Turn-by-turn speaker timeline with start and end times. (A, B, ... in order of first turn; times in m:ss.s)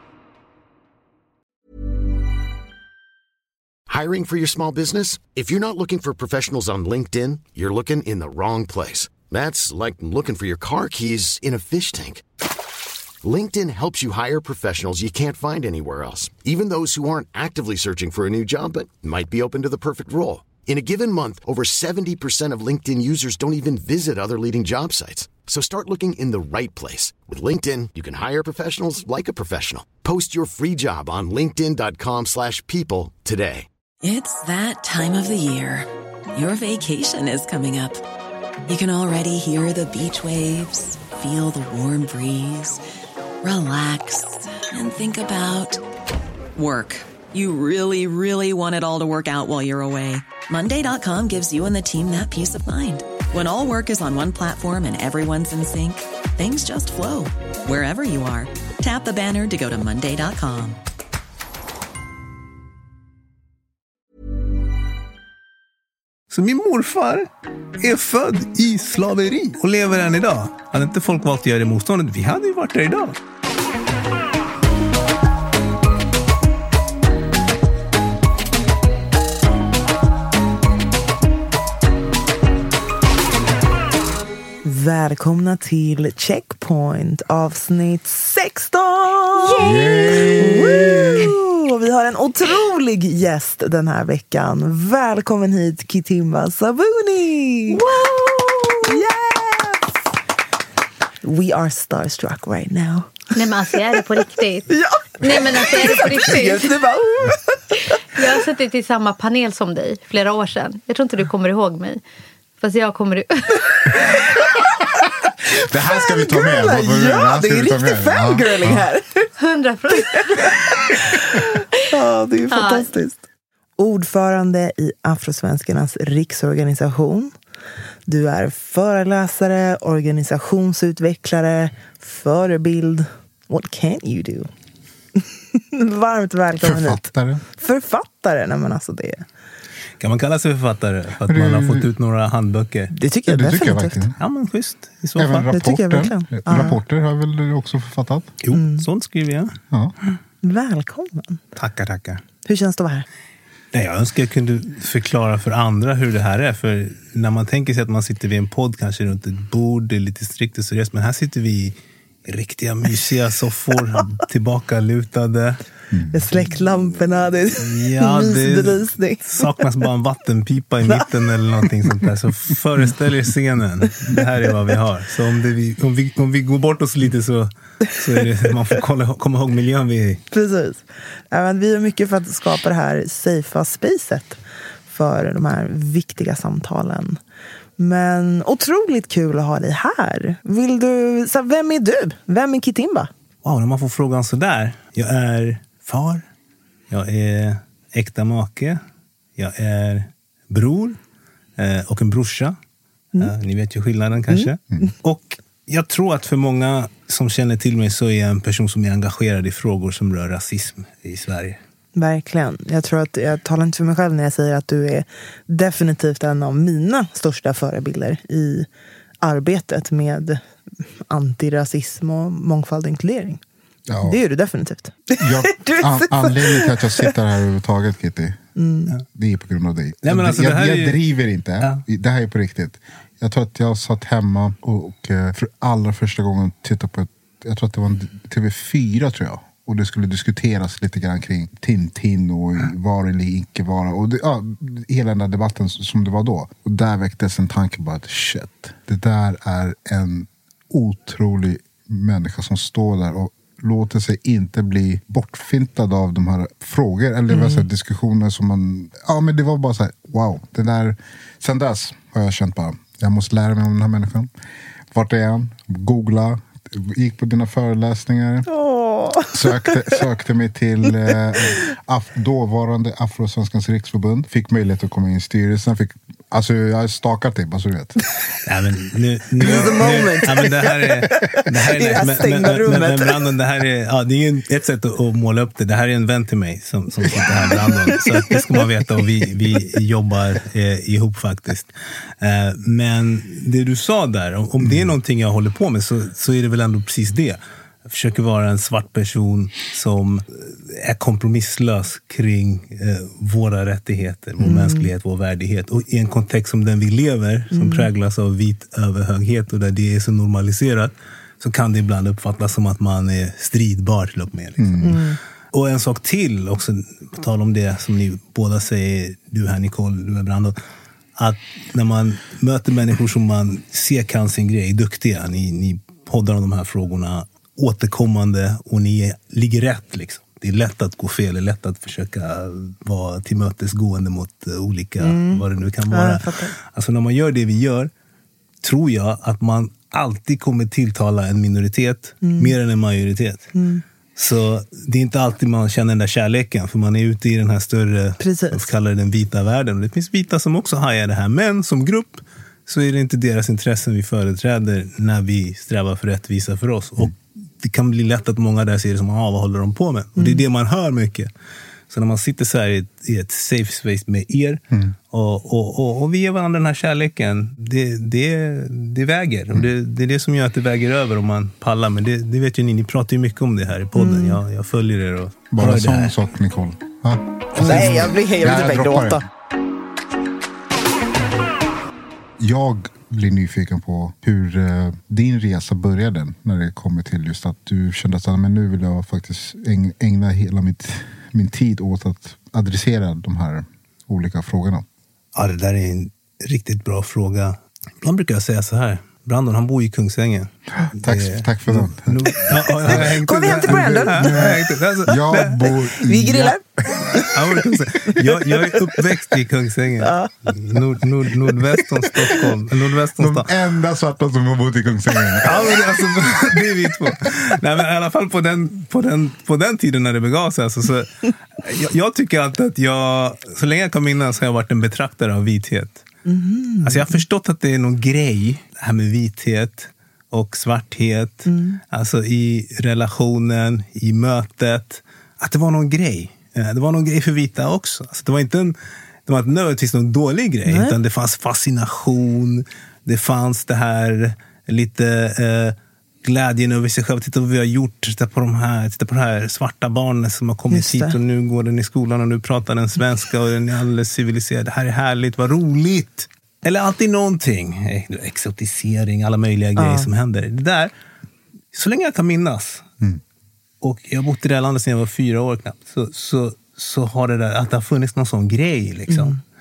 0:03.9-0:12.2 A
0:13.2-0:33.7 A
0:34.0-0:38.0 B
0:38.7-0:42.8 B
0:43.4-0:45.8 B
0:46.6-1:00.8 B
1:06.3-1:07.3 C
1:07.8-1:13.2 C
1:24.6-1:37.9 D
1:29.5-1:30.9 E
1:29.6-1:31.3 F
1:37.7-1:39.0 E
1:38.8-1:39.8 D
1:41.2-1:43.2 D
1:43.3-1:44.7 E
1:44.7-1:47.5 D
1:45.2-1:46.8 E
1:48.1-1:52.0 E
1:52.6-1:54.1 E
1:55.7-1:58.8 F
1:55.8-1:59.2 D
1:59.4-2:01.4 E
1:59.9-2:03.2 D
2:02.5-2:02.9 E
2:03.8-2:07.3 D
2:08.1-2:14.5 D
2:15.2-2:19.3 D
2:16.6-2:17.4 F
2:20.0-2:22.9 C
2:21.3-2:21.9 F
2:22.9-2:24.0 D
2:23.3-2:24.2 F
2:24.2-2:25.5 C
2:25.2-2:28.3 F
2:25.5-2:26.8 D
2:28.4-2:29.6 C
2:28.5-2:28.8 D
2:30.4-2:31.4 D
2:31.6-2:32.2 C
2:32.4-2:33.1 D
2:33.7-2:45.6 C
2:45.9-2:46.2 F
2:46.1-2:49.6 D
2:47.6-3:00.2 C
2:51.6-2:52.1 D
3:00.3-3:07.2 D
3:07.8-3:13.1 D
3:13.4-3:16.3 C
3:16.9-3:18.8 C
3:19.4-3:21.0 C
3:21.6-3:22.6 C
3:23.2-3:31.6 C
3:32.0-3:38.7 D
3:39.2-3:40.4 D
3:41.1-3:43.4 D
3:43.9-3:44.2 F
3:44.0-3:47.1 D
3:45.2-3:48.4 F
3:48.6-3:49.0 D
3:49.1-4:24.3 F
3:50.0-3:51.0 C
4:17.3-4:17.6 D
4:24.9-4:28.5 F
4:28.5-4:29.9 D
4:29.3-4:38.0 F
4:38.4-5:20.6 C
4:39.4-4:43.2 D
4:39.5-4:39.8 F
4:47.7-4:48.4 D
5:04.4-5:04.9 D
5:07.5-5:07.9 D
5:14.6-5:15.0 F
5:14.8-5:15.2 D
5:21.2-5:37.9 C
5:35.0-5:36.5 D
5:38.6-5:43.5 C
5:42.2-5:42.5 D
5:43.6-5:43.8 D
5:44.2-6:01.3 C
5:48.2-5:48.7 D
6:00.2-6:00.4 D
6:01.9-6:16.2 C
6:14.0-6:14.4 D
6:15.5-6:19.2 F
6:17.6-6:18.0 C
6:17.6-6:19.2 D
6:22.4-6:34.8 F
6:35.4-6:45.7 C
6:40.9-6:47.0 F
6:42.9-6:44.6 D
6:46.0-6:47.4 D
6:47.3-6:53.5 C
6:48.1-6:49.0 D
6:50.0-6:50.3 D
6:53.2-6:55.8 F
6:55.4-7:06.0 C
7:06.3-7:07.2 D
7:06.8-7:18.8 C
7:11.5-7:11.8 D
7:19.3-7:40.9 C
7:20.7-7:21.0 D
7:30.7-7:31.2 D
7:39.8-7:40.1 D
7:41.7-7:42.9 C
7:43.8-7:49.4 C
7:49.1-7:49.4 D